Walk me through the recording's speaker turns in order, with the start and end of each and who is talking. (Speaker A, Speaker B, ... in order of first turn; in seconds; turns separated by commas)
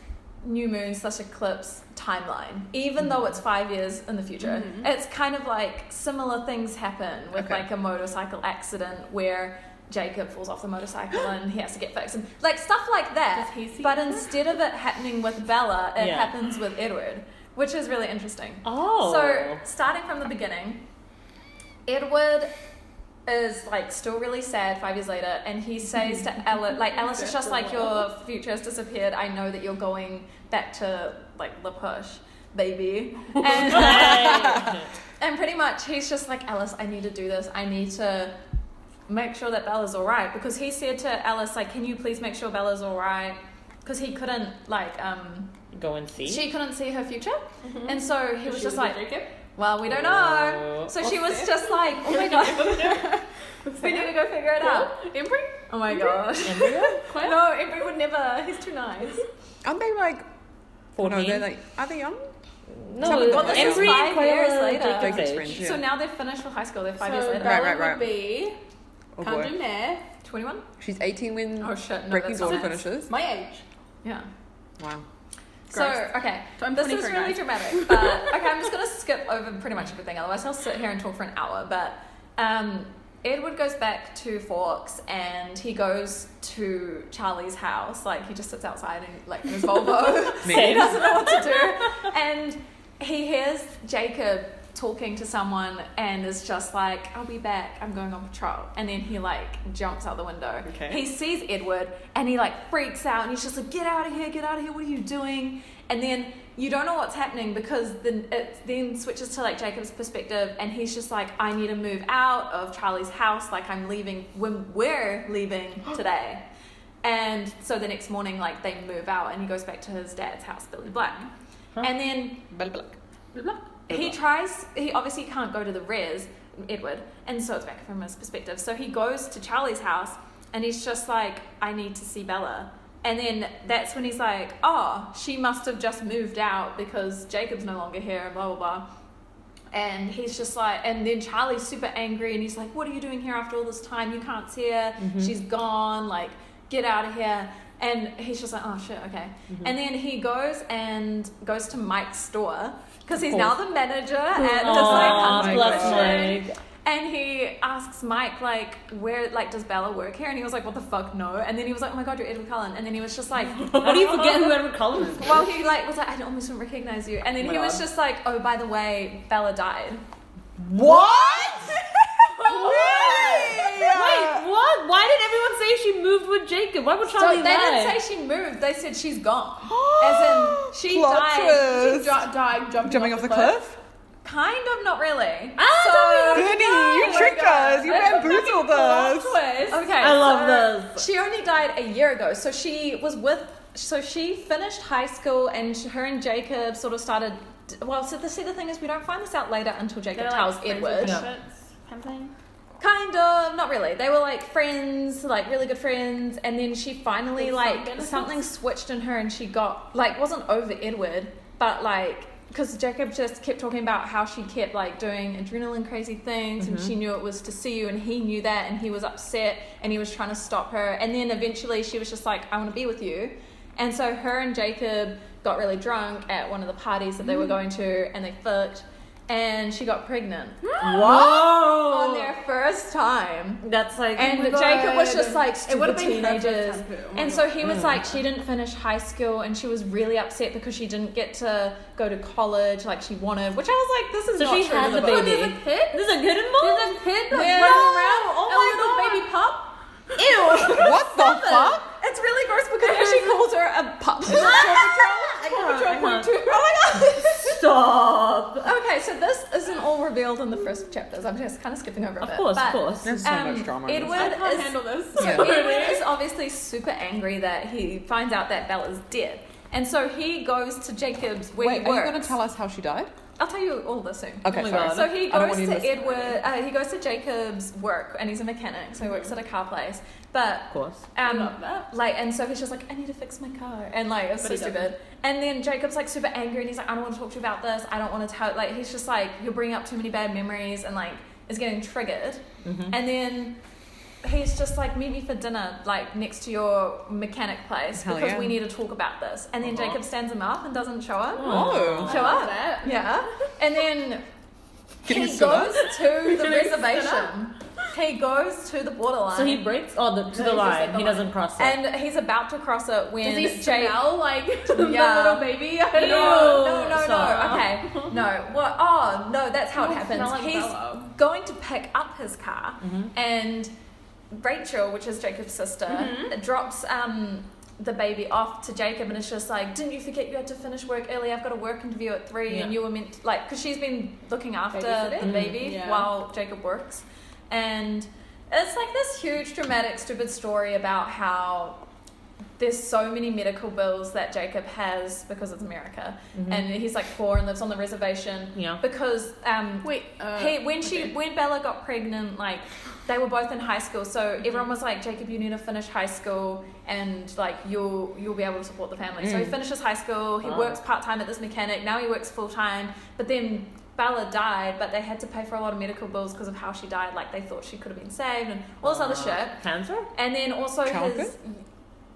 Speaker A: 0.4-20.8, Speaker B: 4.4-4.9, Speaker C: 7.4-7.7, Speaker B: 13.3-14.3, Speaker D: 16.0-16.3, Speaker D: 18.6-19.6, Speaker A: 21.9-22.5, Speaker A: 23.3-38.4, Speaker B: 26.7-28.1, Speaker D: 33.5-34.9, Speaker C: 34.1-34.7, Speaker A: 39.1-45.6, Speaker D: 45.7-46.5, Speaker A: 46.2-49.0, Speaker B: 47.6-49.4, Speaker A: 49.6-53.2, Speaker D: 49.9-50.9, Speaker B: 51.0-57.4, Speaker A: 53.8-55.0, Speaker A: 55.7-59.2, Speaker D: 56.4-57.0, Speaker C: 59.6-60.3, Speaker D: 61.0-61.5, Speaker C: 61.0-62.3, Speaker D: 62.7-65.6, Speaker C: 63.0-64.1, Speaker A: 63.0-67.8, Speaker C: 64.9-65.8, Speaker B: 67.0-68.6, Speaker C: 67.4-68.1, Speaker C: 69.2-69.6, Speaker B: 69.2-70.1, Speaker A: 70.2-70.7, Speaker C: 70.8-73.1, Speaker A: 71.6-72.8, Speaker B: 72.4-73.6, Speaker C: 74.8-75.1, Speaker B: 75.7-78.5, Speaker A: 75.7-116.5, Speaker C: 90.4-91.1, Speaker D: 90.5-91.4, Speaker C: 100.7-101.0, Speaker A: 117.0-121.3, Speaker A: 121.8-122.4, Speaker C: 122.5-123.0, Speaker B: 123.3-123.6, Speaker C: 123.9-124.2, Speaker A: 123.9-138.9, Speaker A: 139.7-170.0, Speaker D: 145.1-145.3, Speaker D: 154.4-156.6, Speaker C: 154.7-156.3, Speaker D: 163.7-165.6, Speaker D: 167.4-167.8, Speaker D: 170.8-171.2, Speaker C: 170.8-171.8, Speaker A: 171.3-171.7, Speaker B: 172.4-173.7, Speaker C: 172.4-174.5, Speaker D: 173.6-178.0, Speaker A: 177.1-181.7, Speaker C: 179.6-182.2, Speaker B: 181.6-183.6, Speaker C: 182.8-183.8, Speaker A: 184.2-187.4, Speaker B: 185.6-190.3, Speaker C: 186.3-189.4, Speaker A: 189.7-201.2, Speaker D: 190.0-191.1, Speaker B: 200.1-202.3, Speaker D: 201.0-201.3, Speaker A: 202.8-233.6, Speaker B: 207.3-208.5, Speaker D: 216.6-216.9, Speaker B: 230.7-231.1, Speaker D: 230.8-232.3, Speaker D: 233.6-234.4, Speaker A: 234.2-245.6, Speaker B: 234.2-237.8, Speaker D: 237.7-238.1, Speaker D: 244.4-247.8, Speaker B: 244.8-250.8, Speaker A: 247.3-249.2, Speaker A: 250.2-257.7, Speaker C: 250.2-251.9, Speaker B: 252.8-253.4, Speaker B: 254.3-256.1, Speaker D: 254.3-256.4, Speaker D: 257.2-258.7, Speaker A: 258.6-272.3, Speaker D: 262.2-263.2, Speaker C: 263.0-264.4, Speaker B: 264.1-266.1, Speaker C: 265.2-265.5, Speaker C: 271.6-273.1, Speaker A: 273.4-293.6, Speaker C: 274.4-276.4, Speaker D: 274.5-275.2, Speaker B: 279.0-279.3, Speaker D: 280.7-281.0, Speaker B: 281.2-281.9, Speaker B: 284.4-284.9, Speaker D: 292.6-292.9, Speaker A: 294.2-304.2, Speaker C: 298.0-298.6, Speaker D: 301.4-302.3, Speaker C: 301.4-302.2, Speaker B: 301.6-303.2, Speaker C: 305.1-305.9, Speaker A: 305.1-309.6, Speaker B: 306.0-307.3, Speaker D: 309.3-311.8, Speaker B: 310.3-311.3, Speaker A: 311.6-314.0, Speaker B: 313.2-316.8, Speaker A: 314.7-323.7, Speaker D: 316.0-317.7, Speaker B: 317.6-318.2, Speaker B: 319.8-321.1, Speaker D: 322.8-323.1, Speaker A: 324.3-341.8, Speaker B: 325.9-326.4, Speaker B: 334.7-336.1, Speaker D: 335.2-335.6, Speaker A: 342.6-369.6, Speaker D: 346.4-346.7, Speaker D: 348.6-348.8, Speaker B: 349.8-351.1, Speaker C: 359.2-359.5, Speaker D: 360.4-360.8, Speaker D: 368.8-370.1, Speaker A: 370.1-371.6, Speaker C: 370.9-371.3